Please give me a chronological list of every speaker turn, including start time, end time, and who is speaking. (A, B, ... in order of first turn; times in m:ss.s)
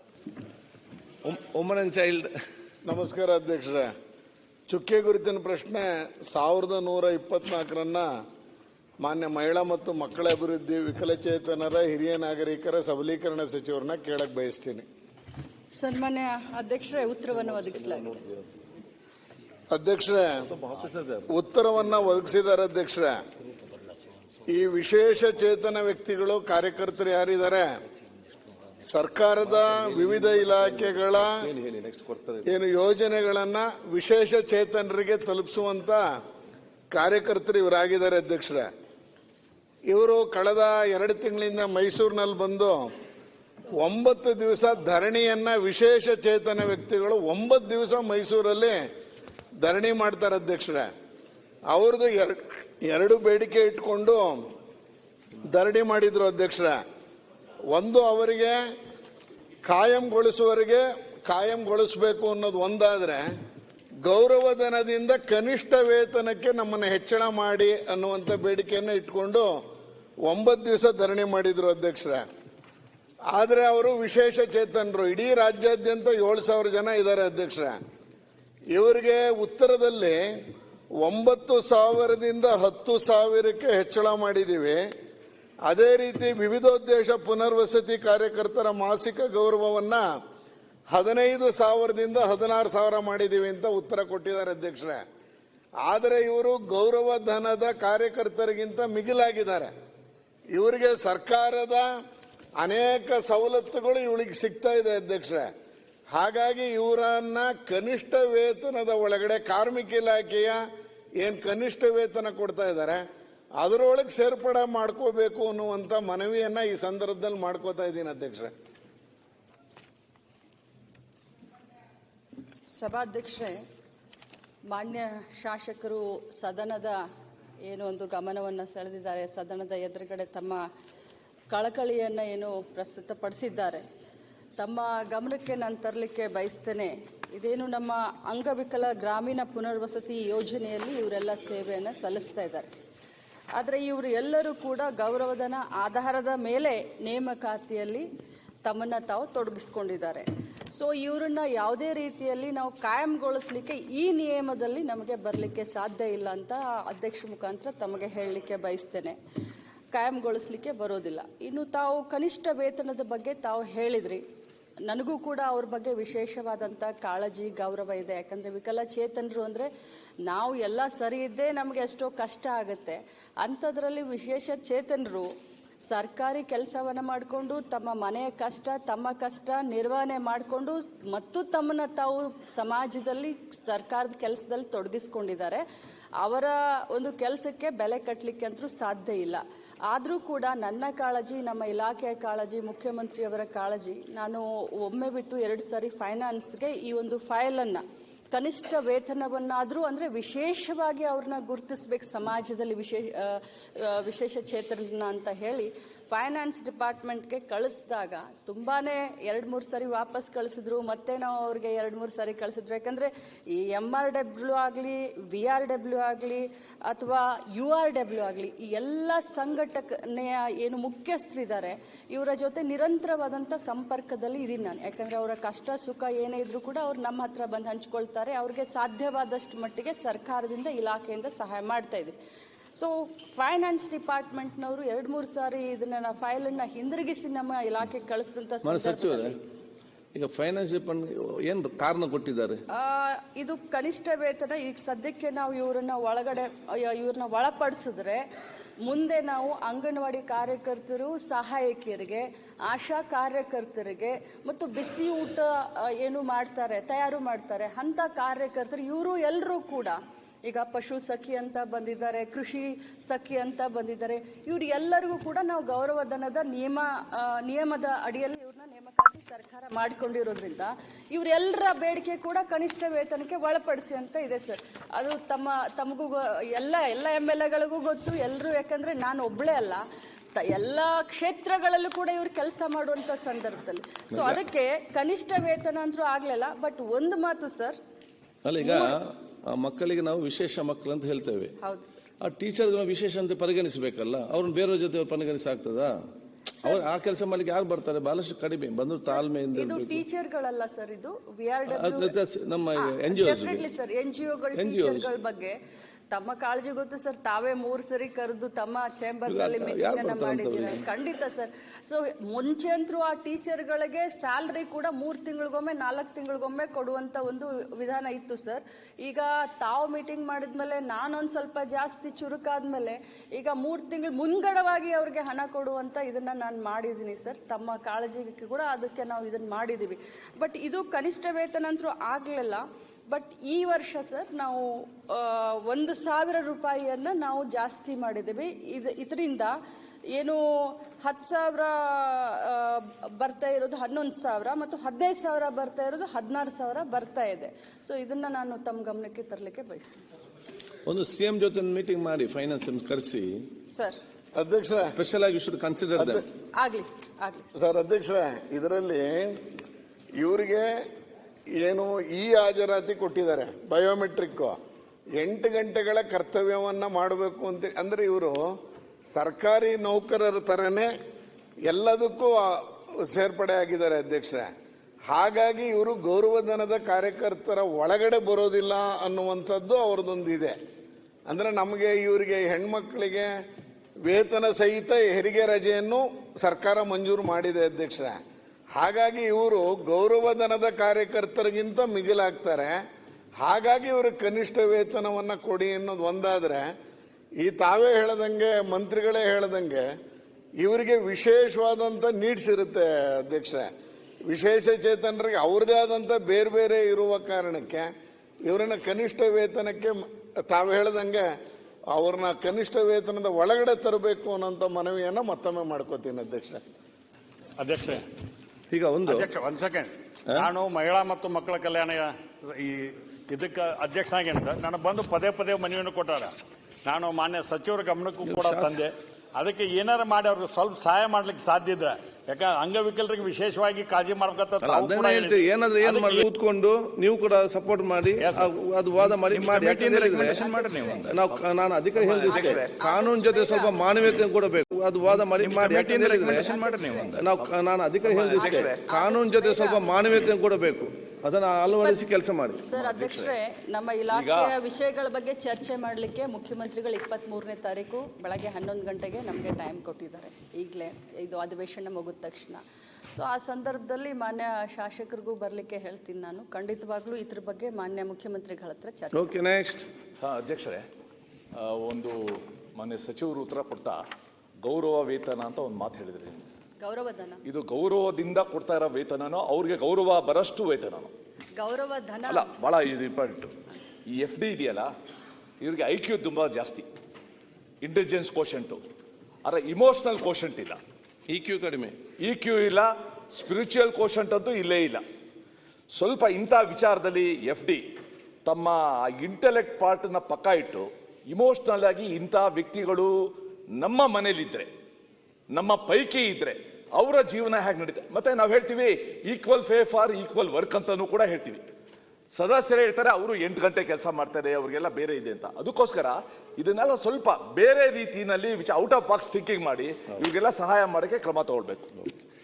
0:01.2-0:02.3 A
0:02.8-0:03.9 B
0:04.7-0:08.1 B
0:09.0-0:14.8 B
0:15.7-0:18.2 C
0:17.3-0:18.5 A
0:19.7-0:20.4 B
0:20.5-0:21.3 A
0:21.3-0:23.2 B
0:24.5-0:27.7 B
0:28.8-0:31.4 B
0:29.4-0:32.5 A
0:32.4-0:36.1 B
0:36.9-0:38.7 B
0:39.9-0:42.9 B
0:43.8-0:48.8 B
0:49.6-0:50.9 B
0:51.7-0:54.4 B
0:55.5-0:56.8 B
0:57.7-0:58.6 B
0:59.7-1:03.2 B
1:04.0-1:09.6 B
1:10.3-1:12.3 B
1:13.3-1:17.8 B
1:18.7-1:20.2 B
1:21.0-1:24.8 B
1:25.7-1:30.0 B
1:30.9-1:35.0 B
1:35.8-1:39.7 B
1:40.5-1:41.9 B
1:42.6-1:45.5 B
1:46.1-1:50.6 B
1:51.2-1:53.0 B
1:53.6-1:58.5 B
2:02.7-2:03.6 C
2:04.7-2:07.0 C
2:07.7-2:10.6 C
2:11.5-2:13.8 C
2:14.6-2:22.7 C
2:23.6-2:28.1 C
2:28.6-2:39.2 C
2:39.9-2:44.2 C
2:44.9-2:49.7 C
2:50.3-2:55.3 C
2:55.9-3:05.6 C
3:06.2-3:52.2 C
3:52.8-3:59.4 C
3:58.6-3:59.4 A
4:00.2-4:02.6 A
4:02.7-4:08.2 C
4:08.8-4:39.8 C
4:40.4-4:47.8 C
4:44.1-4:44.4 A
4:48.4-4:51.5 A
4:48.6-4:49.0 C
4:51.6-4:52.0 C
4:52.2-4:55.9 A
4:56.6-5:00.0 A
4:59.1-5:02.2 C
5:01.7-5:03.6 A
5:02.8-5:05.6 C
5:04.6-5:05.1 A
5:06.1-5:39.5 C
5:09.3-5:10.8 A
5:40.1-5:50.1 C
5:50.9-5:53.4 A
5:54.4-5:54.9 B
5:54.9-5:56.2 A
5:56.0-5:56.2 B
5:56.6-5:57.5 C
5:57.6-5:59.4 B
6:00.2-6:00.7 B
6:01.6-6:04.6 B
6:05.2-6:08.4 B
6:09.1-6:10.9 B
6:11.7-6:14.5 B
6:15.1-6:20.6 B
6:21.3-6:23.3 B
6:24.1-6:28.2 B
6:28.8-6:32.8 B
6:33.4-6:36.7 B
6:37.4-6:39.8 B
6:40.6-6:43.7 B
6:44.3-6:47.9 B
6:48.4-6:51.3 B
6:51.9-6:56.6 B
6:57.6-6:58.1 D
6:58.7-6:59.3 A
6:59.1-7:06.3 D
7:06.9-7:16.2 D
7:08.2-7:08.8 A
7:14.6-7:20.5 A
7:18.2-7:18.5 D
7:19.1-7:22.7 E
7:20.1-7:21.2 C
7:21.0-7:26.6 A
7:22.3-7:23.8 C
7:25.2-7:28.8 E
7:26.2-7:27.2 C
7:27.1-7:32.6 A
7:28.4-7:29.8 C
7:31.7-7:32.0 C
7:32.6-7:49.3 C
7:32.8-7:33.3 E
7:34.1-7:34.6 E
7:49.2-7:49.9 A
7:50.2-7:50.8 E
7:51.6-7:54.0 E
7:54.6-7:56.5 E
7:56.8-7:57.4 C
7:57.5-8:01.1 E
8:01.6-8:02.5 C
8:02.3-8:03.5 E
8:04.1-8:04.9 E
8:05.6-8:06.9 E
8:07.8-8:08.8 E
8:09.4-8:10.8 E
8:11.3-8:12.0 A
8:12.3-8:15.0 E
8:15.9-8:17.9 E
8:18.4-8:24.7 E
8:25.5-8:31.6 E
8:32.3-8:42.1 E